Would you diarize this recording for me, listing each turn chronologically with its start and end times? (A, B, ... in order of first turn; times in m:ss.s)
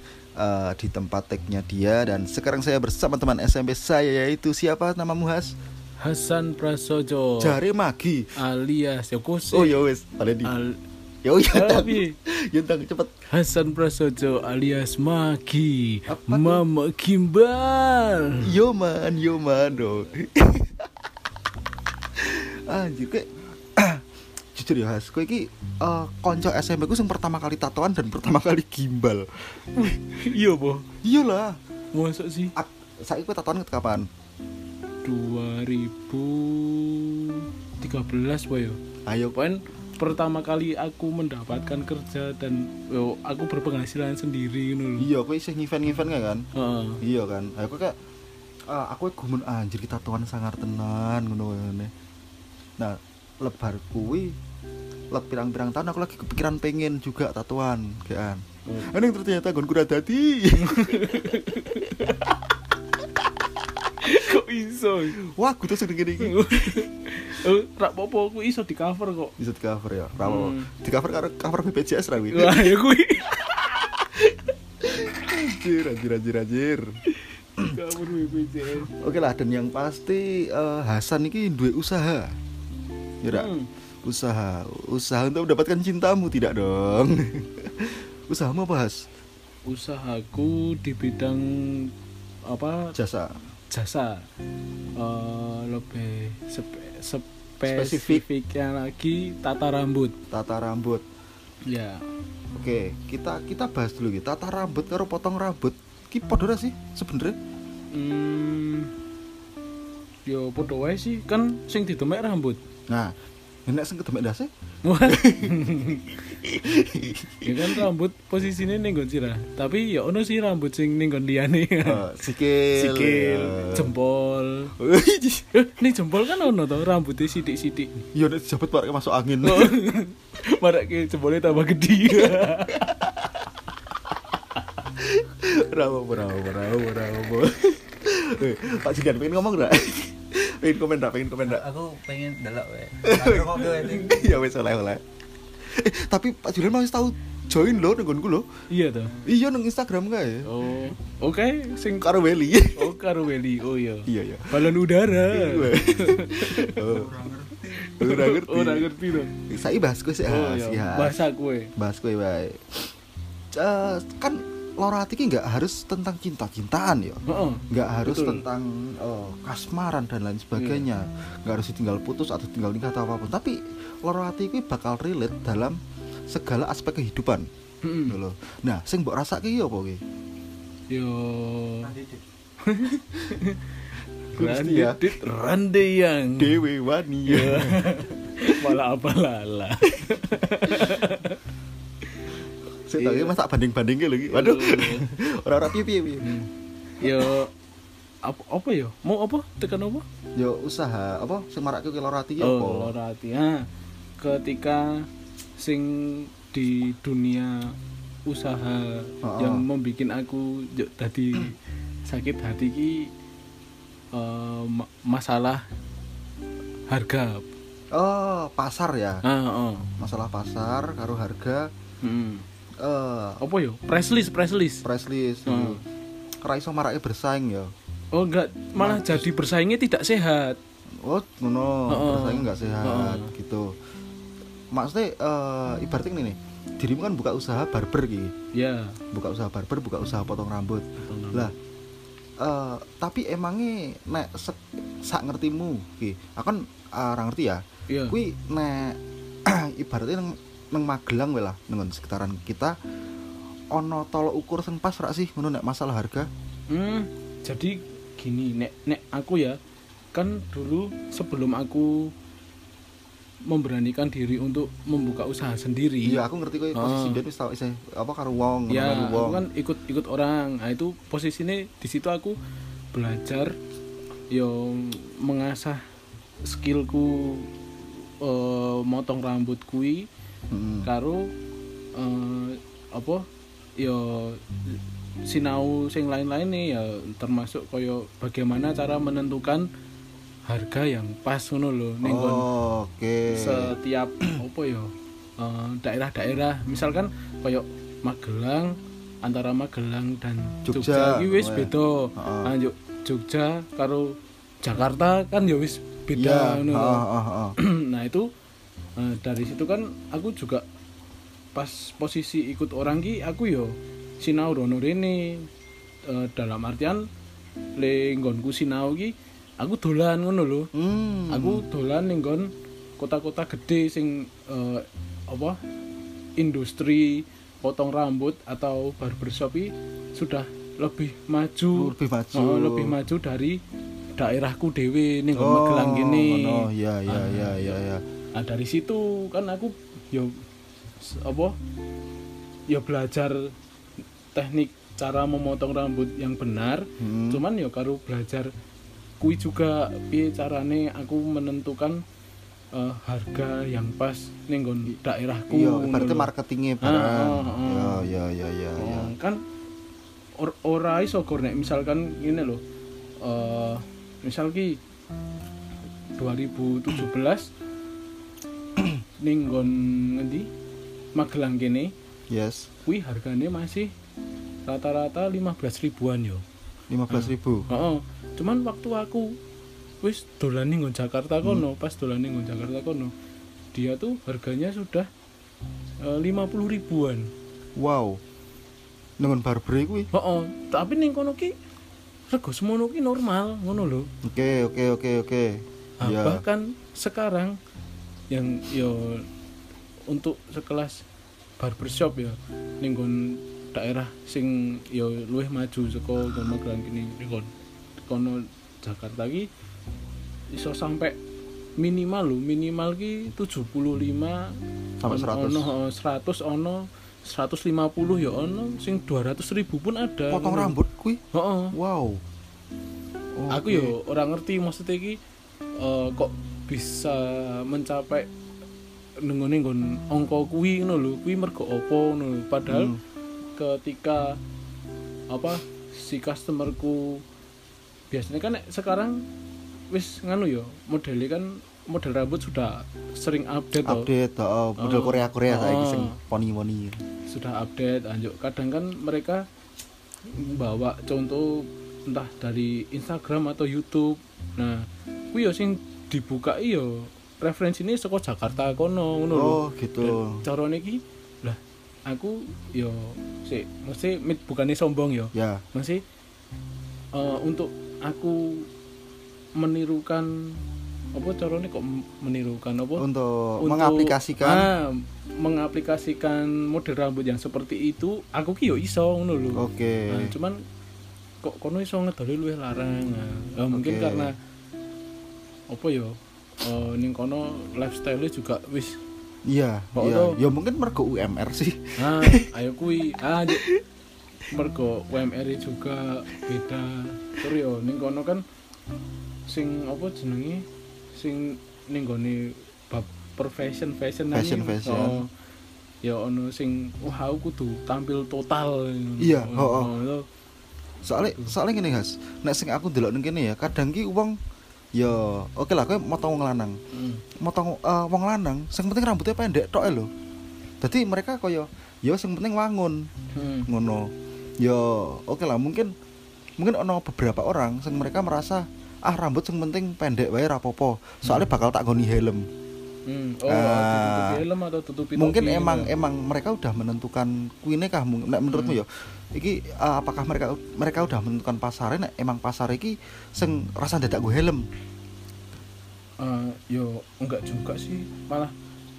0:00.4-0:05.6 A
0:06.0-0:07.6 B
0:07.4-0:08.3 A
0:08.4-0:09.8 B
0:09.5-0:10.6 A
0:10.4-0:10.8 B
0:11.2-0:13.1 A
0:11.5-0:12.2 B
0:13.3-0:18.4 B
0:16.1-0:16.6 A
0:18.4-0:20.9 A
0:22.2-0:24.0 A
0:24.6-0:30.0 A
0:29.8-0:30.9 B
0:31.0-0:31.6 A
0:31.9-0:32.6 B
0:32.6-0:34.1 A
0:35.0-0:38.8 B
0:39.1-0:39.4 A
0:39.3-0:45.1 B
0:45.0-0:46.5 A
0:46.6-0:47.0 B
0:47.0-0:48.0 A
0:48.7-0:51.9 A
0:52.8-0:54.4 A
0:55.1-1:02.3 A
0:58.7-0:58.9 B
1:00.6-1:02.4 B
1:04.0-1:05.2 B
1:05.2-1:06.9 A
1:06.2-1:09.4 B
1:09.4-1:12.7 A
1:10.2-1:10.7 B
1:12.2-1:13.3 B
1:13.3-1:16.9 A
1:17.6-1:18.9 B
1:18.8-1:22.4 A
1:23.2-1:23.5 A
1:23.3-1:23.7 B
1:24.0-1:29.0 A
1:29.7-1:31.9 B
1:32.5-1:32.9 B
1:33.0-1:33.4 A
1:33.7-1:34.3 B
1:35.0-1:40.1 B
1:37.7-1:38.2 A
1:40.3-1:41.0 A
1:41.7-1:42.0 B
1:42.5-1:47.4 A
1:47.9-1:48.9 B
1:50.3-1:52.6 B
1:52.9-1:53.2 A
1:53.7-1:54.5 A
1:54.8-1:56.1 B
1:55.1-1:57.8 A
1:57.4-2:02.0 B
2:01.8-2:03.9 A
2:02.8-2:04.7 B
2:04.8-2:05.5 A
2:05.5-2:08.0 B
2:08.1-2:09.8 A
2:09.4-2:13.0 B
2:12.7-2:13.4 A
2:14.9-2:21.6 A
2:21.5-2:24.4 C
2:23.0-2:25.0 A
2:25.6-2:28.5 A
2:28.7-2:29.2 B
2:29.2-2:30.5 A
2:30.4-2:32.2 B
2:32.0-2:32.9 A
2:32.7-2:37.0 B
2:34.1-2:34.7 A
2:35.3-2:37.1 A
2:36.9-2:37.8 C
2:37.8-2:39.4 B
2:37.9-2:41.2 A
2:40.3-2:41.7 B
2:41.8-2:42.9 A
2:43.5-2:57.5 A
2:47.3-2:48.4 B
2:50.6-2:50.8 B
2:57.8-2:58.2 B
2:58.1-3:00.0 A
3:00.9-3:01.9 B
3:02.6-3:03.8 B
3:04.3-3:05.1 A
3:04.4-3:06.6 B
3:06.4-3:08.0 A
3:07.3-3:11.4 B
3:10.1-3:11.1 A
3:12.1-3:12.3 B
3:12.9-3:16.3 A
3:13.0-3:13.3 B
3:14.3-3:15.1 B
3:16.2-3:17.5 B
3:17.0-3:17.4 A
3:18.2-3:20.0 B
3:20.4-3:22.9 A
3:22.4-3:23.7 B
3:24.2-3:27.7 B
3:28.3-3:33.1 B
3:29.2-3:29.6 A
3:34.1-3:35.6 B
3:36.9-3:37.4 B
3:37.9-3:39.2 A
3:39.2-3:39.9 B
3:40.0-3:41.7 A
3:42.0-3:42.4 B
3:42.8-3:43.4 A
3:43.4-3:44.8 B
3:44.8-3:45.8 A
3:45.5-3:45.8 B
3:46.4-3:47.7 A
3:48.1-3:50.6 B
3:48.8-3:49.3 A
3:51.0-3:53.8 A
3:51.9-3:53.3 B
3:54.7-3:58.3 A
3:58.5-3:59.0 B
3:59.1-4:01.6 A
4:01.0-4:01.5 B
4:02.4-4:12.8 A
4:07.9-4:08.2 B
4:13.7-4:16.3 A
4:16.7-4:19.6 B
4:20.1-4:22.1 B
4:23.5-4:26.2 B
4:26.0-4:29.4 A
4:26.7-4:27.2 B
4:28.7-4:32.4 B
4:32.9-4:33.5 B
4:34.3-4:35.8 B
4:36.5-4:40.1 B
4:40.5-4:40.9 A
4:40.8-4:41.3 B
4:42.0-4:43.2 B
4:43.8-4:49.7 B
4:50.5-4:52.5 B
4:52.0-4:53.8 A
4:53.3-5:07.0 B
5:00.7-5:02.5 A
5:06.2-5:07.6 A
5:07.6-5:08.3 B
5:09.0-5:10.6 B
5:11.6-5:15.5 B
5:16.1-5:17.0 B
5:17.8-5:20.7 B
5:20.7-5:21.6 A
5:21.3-5:25.6 B
5:26.4-5:33.6 B
5:31.8-5:33.0 A
5:34.2-5:37.8 B
5:35.4-5:38.0 A
5:38.4-5:40.4 B
5:41.0-5:41.6 B
5:42.7-5:43.5 B
5:44.3-5:48.5 B
5:47.0-5:47.4 A
5:49.2-5:52.0 B
5:52.7-5:56.3 B
5:55.5-5:59.1 A
5:56.8-5:58.1 B
5:58.8-5:59.4 B
6:00.4-6:02.6 B
6:03.2-6:04.8 B
6:06.2-6:07.5 B
6:09.2-6:10.5 B
6:11.2-6:11.9 B
6:12.3-6:12.7 A
6:12.9-6:13.9 B
6:14.7-6:16.4 B
6:16.9-6:17.6 A
6:17.1-6:19.4 B
6:20.0-6:23.1 B
6:23.7-6:25.1 B
6:26.0-6:27.3 B
6:27.8-6:28.2 A
6:29.2-6:30.1 A
6:30.1-6:31.6 B
6:32.3-6:34.1 B
6:34.2-6:36.4 A
6:36.0-6:37.6 B
6:38.3-6:39.3 B
6:40.1-6:41.0 B
6:41.6-6:47.5 B
6:48.1-6:49.5 B
6:50.5-6:51.2 B
6:51.8-6:54.5 B
6:55.0-6:55.7 A
6:55.1-7:00.8 B
7:00.3-7:01.2 A
7:01.3-7:01.7 B
7:01.7-7:02.2 A
7:03.4-7:03.9 A
7:03.5-7:05.2 B
7:05.8-7:08.3 B
7:09.2-7:12.9 B
7:12.7-7:13.0 A
7:13.6-7:14.4 B
7:15.3-7:17.2 B
7:18.1-7:19.2 B
7:19.9-7:24.1 B
7:23.8-7:27.0 A
7:24.8-7:26.2 B
7:27.3-7:29.5 B
7:30.3-7:46.0 B
7:39.3-7:40.4 A
7:45.3-7:45.6 A
7:47.1-7:48.7 B
7:49.6-7:50.6 B
7:51.2-7:53.0 B
7:53.0-7:54.7 A
7:53.6-8:00.6 B
7:59.6-8:00.3 A
8:01.4-8:04.3 B
8:03.7-8:04.3 A
8:05.7-8:09.0 B
8:09.5-8:12.5 A
8:10.0-8:10.4 B
8:12.0-8:13.6 B
8:14.5-8:18.4 B
8:19.5-8:25.3 B
8:24.3-8:25.2 A
8:26.0-8:30.3 B
8:29.2-8:29.9 A
8:31.0-8:34.4 A
8:34.9-8:36.8 A
8:36.9-8:37.2 B
8:37.4-8:40.1 A
8:40.8-8:43.1 A
8:43.3-8:43.7 B
8:43.7-8:45.9 A
8:46.6-8:52.5 A
8:53.1-8:55.9 B
8:53.5-8:54.4 A
8:55.2-9:04.6 A
8:58.5-8:58.8 B
9:06.2-9:08.5 B